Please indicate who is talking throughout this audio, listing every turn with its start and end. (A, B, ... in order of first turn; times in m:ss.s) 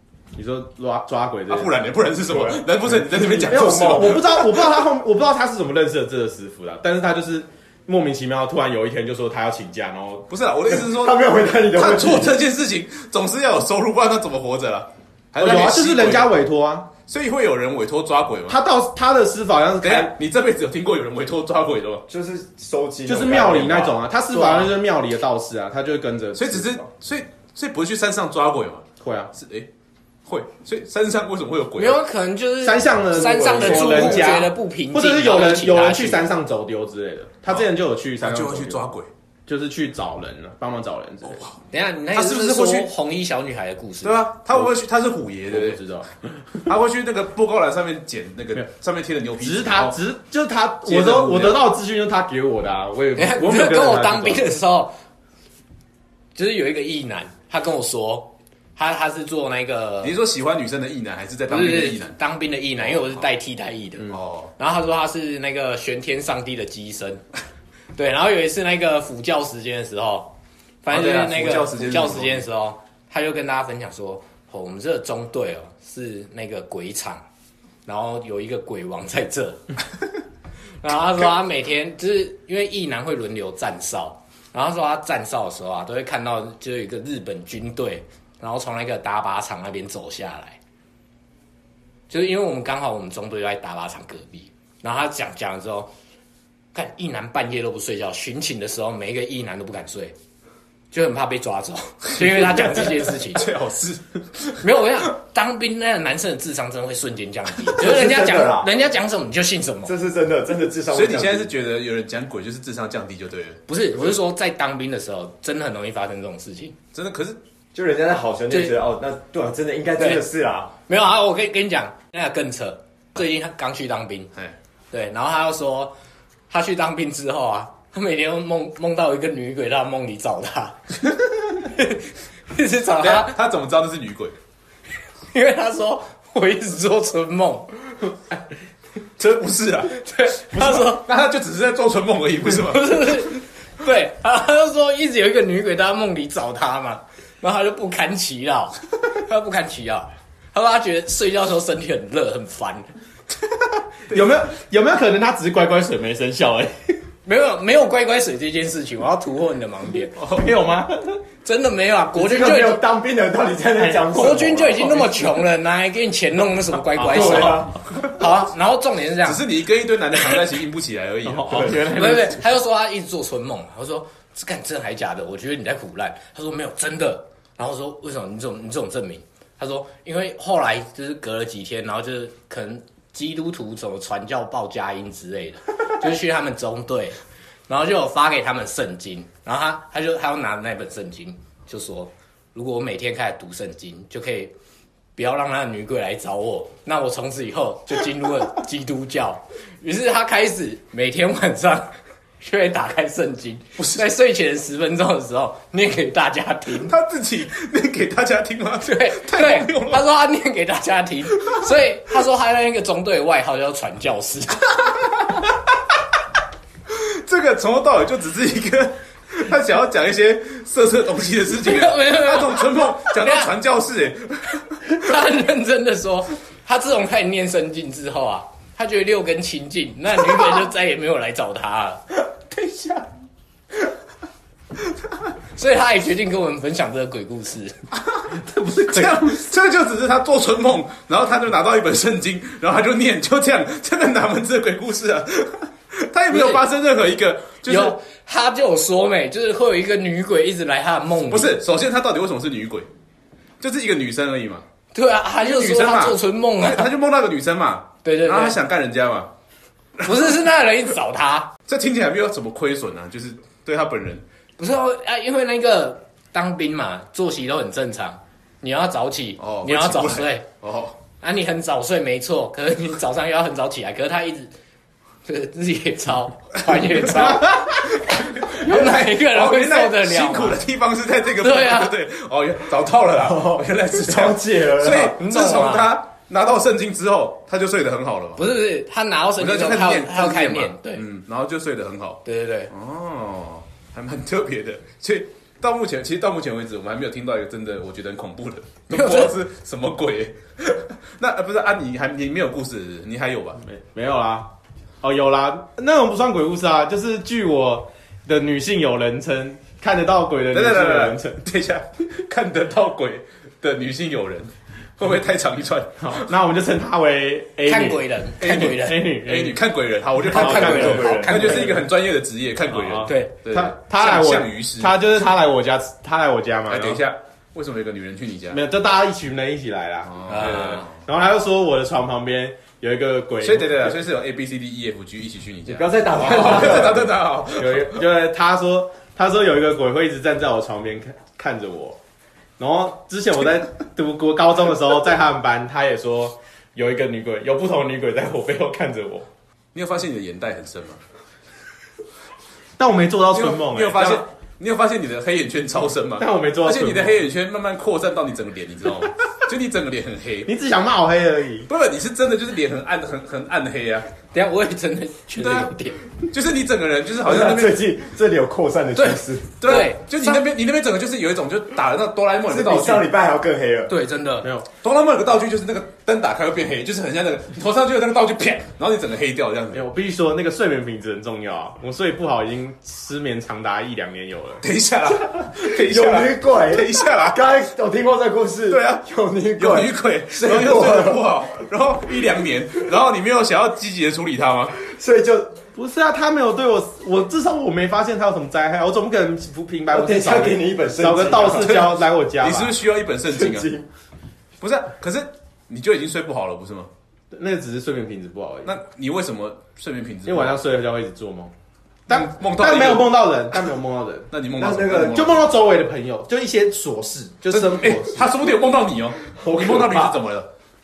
0:00.4-0:01.8 A
0:01.5-0:04.8 B
0:02.3-0:02.6 A
0:03.2-0:10.3 A
0:03.3-0:04.2 C
0:10.3-0:16.3 B
0:10.7-0:12.4 C
0:15.4-0:16.9 A
0:17.1-0:18.6 B
0:18.5-0:20.2 A
0:19.8-0:22.0 B
0:22.1-0:24.0 C
0:23.1-0:26.8 A
0:24.3-0:24.7 D
0:26.4-0:29.7 B
0:29.0-0:29.3 A
0:30.3-0:32.0 B
0:31.8-0:36.3 D
0:32.6-0:38.8 A
0:33.2-0:34.4 C
0:38.2-0:39.1 B
0:39.5-0:41.5 A
0:41.2-0:41.6 B
0:41.7-0:44.3 D
0:42.1-0:42.9 B
0:44.0-0:45.8 B
0:45.5-0:46.1 A
0:46.7-0:50.0 B
0:49.4-0:54.5 A
0:50.8-0:51.7 B
0:53.2-0:55.0 D
0:56.4-1:00.1 D
1:00.0-1:02.2 B
1:01.5-1:07.2 D
1:02.8-1:03.3 B
1:04.1-1:04.5 B
1:08.0-1:17.2 D
1:10.9-1:12.4 B
1:17.9-1:19.6 D
1:20.8-1:30.6 D
1:32.1-1:35.9 D
1:36.7-1:40.2 D
1:40.9-1:43.5 D
1:42.2-1:44.7 B
1:44.6-1:49.9 D
1:47.8-1:48.7 C
1:49.8-1:51.5 C
1:50.9-1:53.6 B
1:53.7-1:56.8 D
1:56.9-1:57.4 B
1:57.7-2:00.7 C
1:58.5-1:58.8 D
2:00.0-2:00.2 D
2:00.9-2:04.3 D
2:04.9-2:05.9 D
2:06.5-2:10.8 D
2:11.7-2:13.4 D
2:13.0-2:14.4 B
2:15.3-2:17.7 D
2:19.2-2:23.2 B
2:20.0-2:21.1 D
2:22.6-2:32.9 D
2:34.1-2:37.0 A
2:37.2-2:40.1 D
2:40.2-2:40.5 B
2:40.3-2:41.2 A
2:41.4-2:42.8 D
2:42.2-2:45.3 C
2:43.8-2:44.0 A
2:44.1-2:49.4 D
2:47.0-2:47.6 A
2:47.0-2:47.8 C
2:49.2-2:51.9 B
2:51.2-2:52.4 A
2:51.7-3:14.5 D
3:15.2-3:26.9 D
3:23.8-3:24.1 B
3:26.7-3:30.0 B
3:28.8-3:34.7 D
3:36.9-3:44.9 B
3:41.6-3:43.5 D
3:44.9-3:52.0 D
3:52.5-3:53.1 B
3:55.6-3:57.8 D
3:57.9-4:08.0 B
3:58.4-3:59.4 A
4:06.3-4:06.6 D
4:07.7-4:11.6 D
4:11.3-4:12.9 B
4:13.6-4:14.6 B
4:14.9-4:16.9 D
4:15.4-4:19.3 B
4:18.0-4:18.6 D
4:20.0-4:20.3 B
4:20.0-4:21.5 D
4:21.7-4:24.2 B
4:24.6-4:30.5 D
4:29.4-4:31.0 B
4:31.2-4:34.5 D
4:35.2-4:37.9 D
4:36.9-4:48.5 B
4:38.4-4:40.6 D
4:41.4-4:41.9 D
4:43.2-4:45.2 C
4:45.2-4:45.9 D
4:48.4-4:51.0 D
4:49.4-5:03.6 B
4:52.2-4:52.7 D
4:58.9-4:59.3 D
5:03.6-5:04.5 A
5:05.0-5:11.4 A
5:10.5-5:16.3 B
5:16.0-5:19.6 A
5:17.7-5:19.1 D
5:18.4-5:25.3 B
5:20.2-5:21.8 A
5:20.3-5:21.7 D
5:20.4-5:21.7 C
5:22.7-5:27.0 A
5:23.1-5:23.3 D
5:26.7-5:28.6 B
5:28.5-5:34.0 A
5:30.1-5:30.9 B
5:30.3-5:30.9 D
5:33.4-5:38.0 B
5:35.7-5:37.1 C
5:36.5-5:37.0 A
5:37.6-5:42.0 A
5:42.6-5:49.3 A
5:49.7-5:51.0 B
5:52.8-5:54.2 A
5:53.3-6:00.5 B
5:56.2-5:57.2 A
6:00.5-6:01.7 A
6:01.7-6:04.1 B
6:04.3-6:06.0 D
6:05.4-6:07.8 B
6:07.2-6:09.7 C
6:09.0-6:10.4 D
6:09.6-6:13.1 B
6:12.5-6:13.9 C
6:13.9-6:14.5 D
6:14.8-6:19.9 B
6:19.7-6:24.6 A
6:24.6-6:27.4 B
6:25.5-6:31.3 C
6:28.7-6:29.0 B
6:29.6-6:34.8 B
6:34.8-6:35.6 C
6:35.8-6:42.8 A
6:39.9-6:41.8 C
6:41.4-6:43.7 B
6:43.3-6:43.9 C
6:44.6-6:46.9 B
6:47.3-6:48.7 A
6:48.6-6:50.6 B
6:50.3-6:51.5 A
6:52.1-6:53.6 B
6:52.1-6:54.3 A
6:54.3-6:55.5 B
6:54.6-6:55.2 C
6:54.9-6:58.5 A
6:57.5-7:00.5 B
6:59.4-7:00.2 A